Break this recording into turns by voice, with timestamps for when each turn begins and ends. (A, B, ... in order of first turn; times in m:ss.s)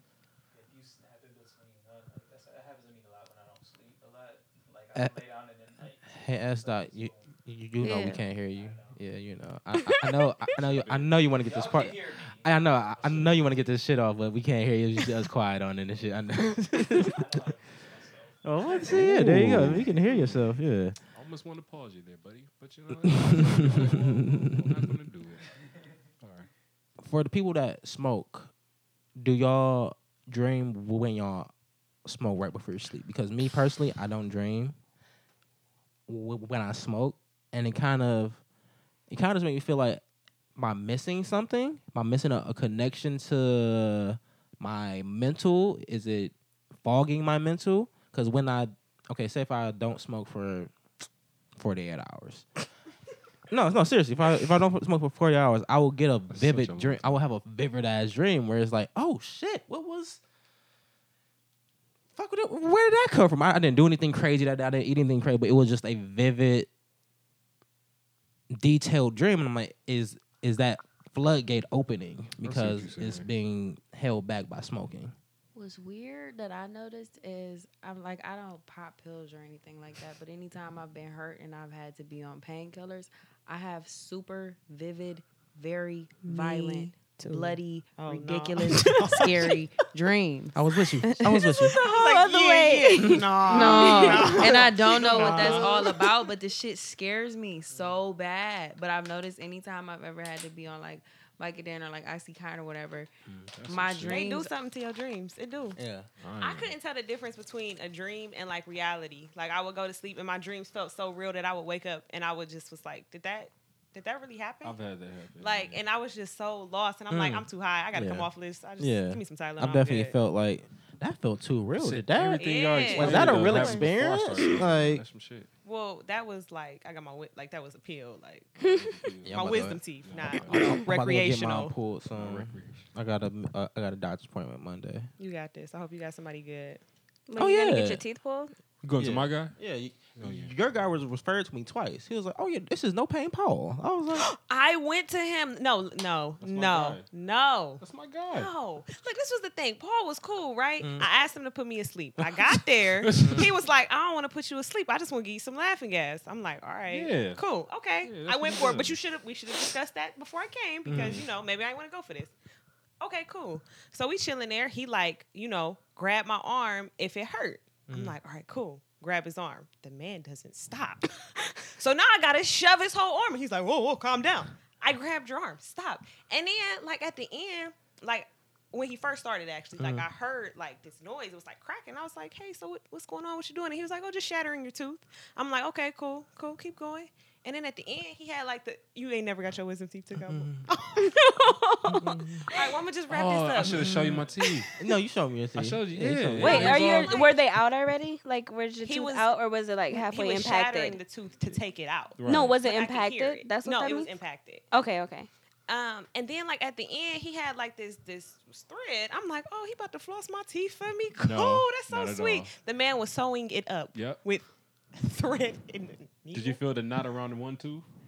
0:00.5-0:07.4 A
0:06.0-0:17.2 B
0:07.8-0:08.2 C
0:08.0-0:09.0 A
0:10.6-0:11.2 D
0:11.3-0:13.8 A
0:16.9-0:20.0 A
0:18.4-0:21.0 B
0:18.8-0:20.5 D
0:21.2-0:25.4 D
0:23.0-0:24.9 B
0:23.5-0:24.2 A
0:25.4-0:26.0 A
0:26.2-0:26.5 D
0:27.0-0:28.5 B
0:29.2-0:31.5 B
0:32.0-0:34.8 B
0:36.1-0:38.4 B
0:39.1-0:40.0 B
0:40.6-0:50.7 B
0:51.6-0:52.5 B
0:53.5-1:00.2 B
0:56.3-0:57.2 D
1:02.2-1:06.7 B
1:08.5-1:15.1 B
1:12.4-1:13.3 D
1:15.6-1:31.3 C
1:26.2-1:29.5 E
1:30.5-1:31.8 B
1:31.6-1:36.0 E
1:31.6-1:34.5 F
1:33.0-1:34.5 B
1:33.5-1:43.1 C
1:35.2-1:35.7 B
1:35.2-1:35.8 D
1:37.7-1:38.0 A
1:43.5-1:44.3 D
1:43.7-1:44.5 C
1:44.0-1:45.8 E
1:45.8-1:46.1 B
1:46.2-1:46.7 D
1:46.4-1:54.8 E
1:54.6-1:55.8 D
1:55.4-2:00.2 E
1:57.1-1:58.3 B
1:58.8-2:05.0 B
2:01.8-2:05.5 D
2:02.4-2:03.4 E
2:03.3-2:03.8 F
2:05.6-2:08.7 E
2:08.6-2:09.0 F
2:08.6-2:09.4 D
2:09.2-2:09.8 B
2:09.3-2:11.7 E
2:10.0-2:10.7 D
2:10.3-2:15.1 B
2:12.1-2:12.9 D
2:15.2-2:16.8 E
2:17.3-2:18.5 F
2:17.4-2:18.0 B
2:18.8-2:19.6 D
2:19.0-2:24.3 B
2:20.2-2:20.6 D
2:24.1-2:42.3 E
2:26.4-2:27.0 D
2:27.8-2:28.5 D
2:30.8-2:31.1 B
2:33.0-2:33.5 D
2:33.1-2:33.5 B
2:36.9-2:37.4 D
2:38.0-2:39.0 D
2:40.9-2:41.2 B
2:40.9-2:41.2 D
2:43.0-2:51.1 E
2:47.9-2:48.2 B
2:51.7-3:11.0 E
2:59.8-3:00.1 B
3:10.2-3:10.7 B
3:11.0-3:12.7 F
3:11.9-3:12.5 B
3:12.5-3:13.9 E
3:13.1-3:14.7 D
3:13.6-3:14.3 B
3:14.8-3:17.2 B
3:15.6-3:17.1 D
3:16.4-3:21.0 F
3:16.4-3:17.4 E
3:18.8-3:19.3 E
3:19.9-3:24.7 E
3:22.2-3:22.6 D
3:22.2-3:24.2 F
3:24.7-3:25.3 F
3:25.7-3:36.6 E
3:31.2-3:32.5 D
3:33.9-3:34.2 D
3:36.3-3:37.9 D